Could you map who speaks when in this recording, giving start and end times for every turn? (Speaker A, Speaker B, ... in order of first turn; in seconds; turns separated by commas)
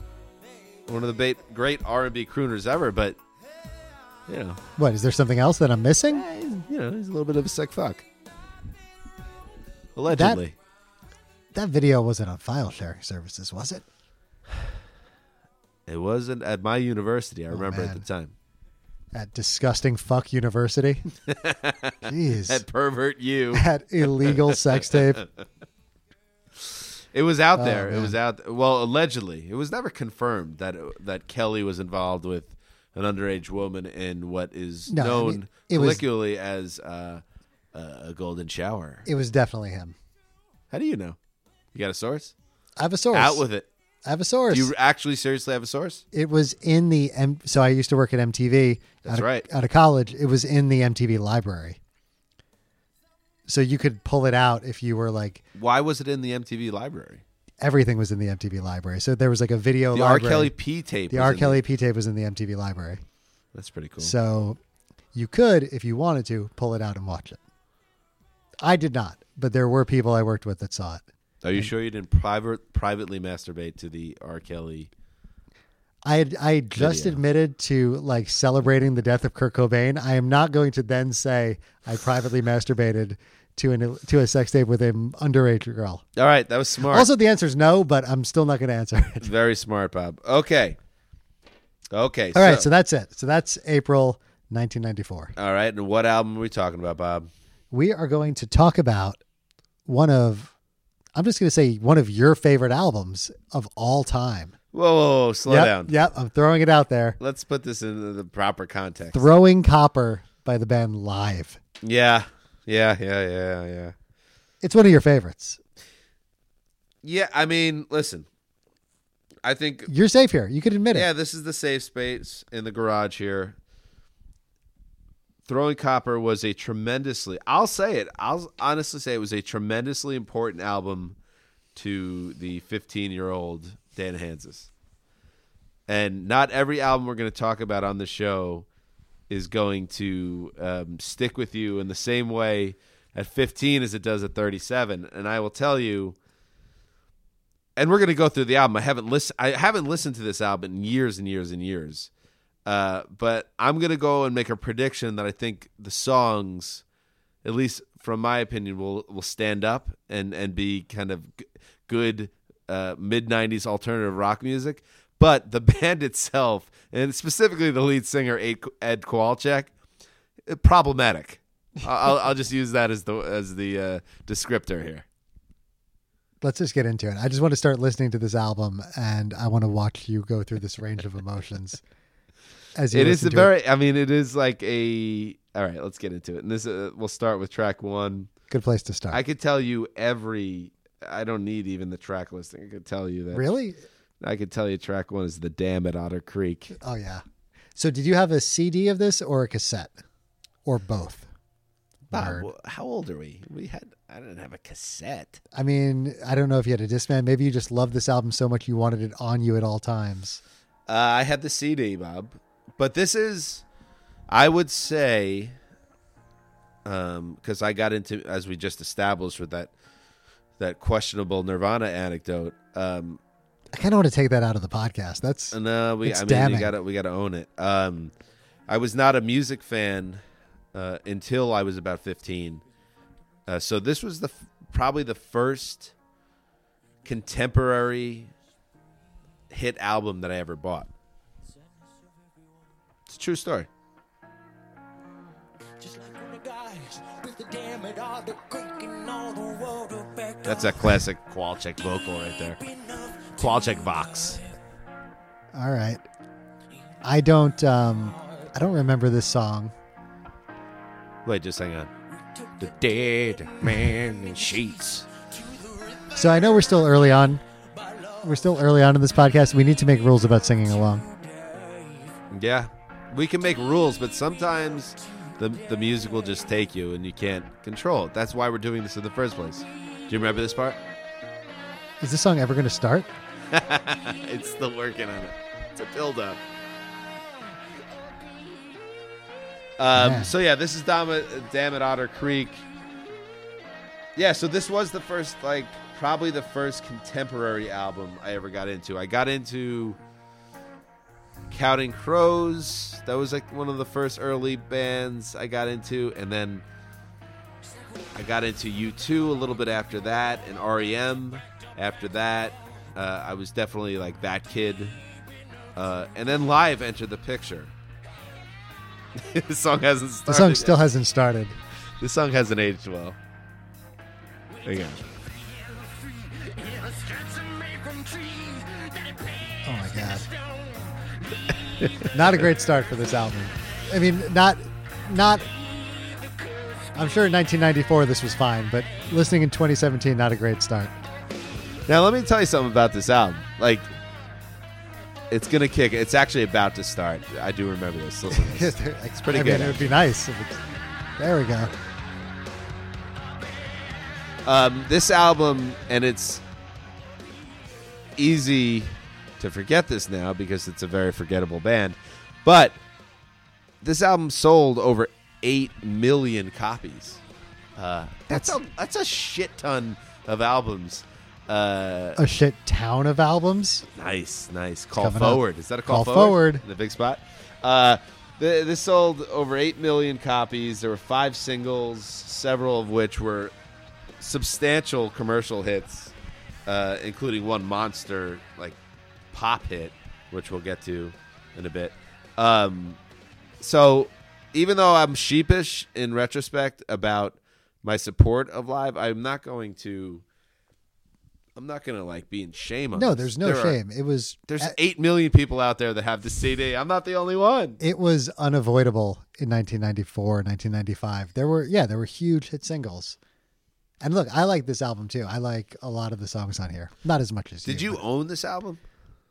Speaker A: 0.9-3.2, Speaker A: 4.3-4.6, Speaker B: 4.8-6.2, Speaker A: 6.1-8.0, Speaker A: 10.0-10.6, Speaker B: 10.1-10.4, Speaker B: 11.5-13.8, Speaker A: 15.9-18.3, Speaker B: 17.5-18.1, Speaker B: 19.1-21.1, Speaker A: 21.3-25.3, Speaker B: 22.1-22.6, Speaker B: 23.5-25.2, Speaker A: 26.6-39.1, Speaker B: 27.6-28.1, Speaker B: 34.9-36.0, Speaker B: 39.1-40.0, Speaker A: 40.7-41.2, Speaker A: 41.7-42.3, Speaker B: 42.8-43.4, Speaker A: 43.1-43.7, Speaker B: 44.1-44.7, Speaker A: 44.5-46.0, Speaker B: 46.1-51.8, Speaker A: 49.0-49.5, Speaker B: 53.5-55.4, Speaker A: 55.5-57.2, Speaker B: 57.6-60.5, Speaker A: 59.9-61.6, Speaker B: 61.1-63.0, Speaker A: 63.5-64.2, Speaker B: 64.0-64.6, Speaker B: 65.2-67.4, Speaker B: 68.6-71.0, Speaker A: 71.4-74.9, Speaker B: 76.1-86.0, Speaker A: 76.8-77.2, Speaker A: 86.2-87.1, Speaker B: 86.9-89.3, Speaker A: 89.2-90.8, Speaker A: 91.9-92.7, Speaker B: 92.3-95.3, Speaker A: 95.4-97.3, Speaker B: 97.7-99.2, Speaker B: 99.9-100.5, Speaker B: 101.2-104.5, Speaker A: 104.7-105.9, Speaker B: 105.5-107.2, Speaker A: 107.2-109.3, Speaker B: 109.1-111.6, Speaker A: 111.8-114.0, Speaker B: 114.6-115.6, Speaker A: 117.0-118.3, Speaker A: 119.4-119.9, Speaker B: 119.9-121.1, Speaker A: 120.9-123.6, Speaker A: 125.5-131.2, Speaker A: 131.8-134.7, Speaker A: 135.9-138.7, Speaker A: 139.3-146.2, Speaker A: 147.8-152.1, Speaker A: 152.7-156.8, Speaker A: 157.4-169.7, Speaker A: 170.5-175.1, Speaker B: 176.4-181.8, Speaker B: 182.8-183.5, Speaker A: 182.9-188.3, Speaker B: 188.5-189.2, Speaker A: 189.1-193.5, Speaker B: 193.3-193.8, Speaker A: 194.2-196.8, Speaker B: 196.8-197.2, Speaker B: 197.8-199.9, Speaker B: 200.7-201.3, Speaker B: 202.1-202.5, Speaker A: 202.1-205.4, Speaker B: 205.5-210.4, Speaker A: 210.9-213.6, Speaker A: 214.3-215.6, Speaker A: 216.8-219.7, Speaker A: 220.6-223.2, Speaker B: 223.7-226.7, Speaker A: 225.5-228.1, Speaker A: 228.7-230.2, Speaker A: 230.7-232.6, Speaker A: 233.5-235.9, Speaker A: 237.1-238.3, Speaker A: 239.5-240.9, Speaker A: 243.1-243.7, Speaker C: 245.8-251.0, Speaker A: 250.4-252.6, Speaker C: 252.6-254.5, Speaker A: 253.4-254.4, Speaker B: 255.5-256.0, Speaker B: 257.0-259.7, Speaker A: 261.2-261.9, Speaker C: 262.3-266.6, Speaker A: 262.6-265.1, Speaker B: 266.1-267.4, Speaker C: 267.7-268.3, Speaker B: 268.2-271.0, Speaker C: 271.0-272.2, Speaker A: 272.3-280.8, Speaker B: 282.0-283.1, Speaker A: 283.5-286.4, Speaker A: 289.8-292.6, Speaker B: 289.9-290.3, Speaker A: 294.1-300.0, Speaker A: 301.5-306.6, Speaker A: 308.1-315.0, Speaker A: 315.8-317.7, Speaker A: 319.1-320.8, Speaker B: 320.3-321.6, Speaker A: 322.0-323.2, Speaker A: 324.6-325.0, Speaker C: 324.6-331.3, Speaker B: 329.6-330.3, Speaker A: 331.8-332.4, Speaker B: 332.1-335.5, Speaker C: 335.8-336.9, Speaker B: 336.9-340.9, Speaker A: 341.9-343.9, Speaker A: 345.3-350.0, Speaker B: 348.3-350.7, Speaker B: 351.2-351.7, Speaker A: 354.4-356.4, Speaker A: 358.2-362.8, Speaker A: 363.8-367.2, Speaker A: 367.8-372.2, Speaker B: 368.3-368.6, Speaker B: 372.2-373.9, Speaker A: 373.9-383.5, Speaker B: 374.9-376.6, Speaker A: 384.2-386.1, Speaker A: 386.7-388.8, Speaker A: 389.3-393.0, Speaker A: 393.6-400.2, Speaker A: 401.6-403.8, Speaker B: 402.9-404.8, Speaker A: 404.5-407.8, Speaker B: 407.8-413.2, Speaker B: 414.0-418.0, Speaker A: 417.6-418.8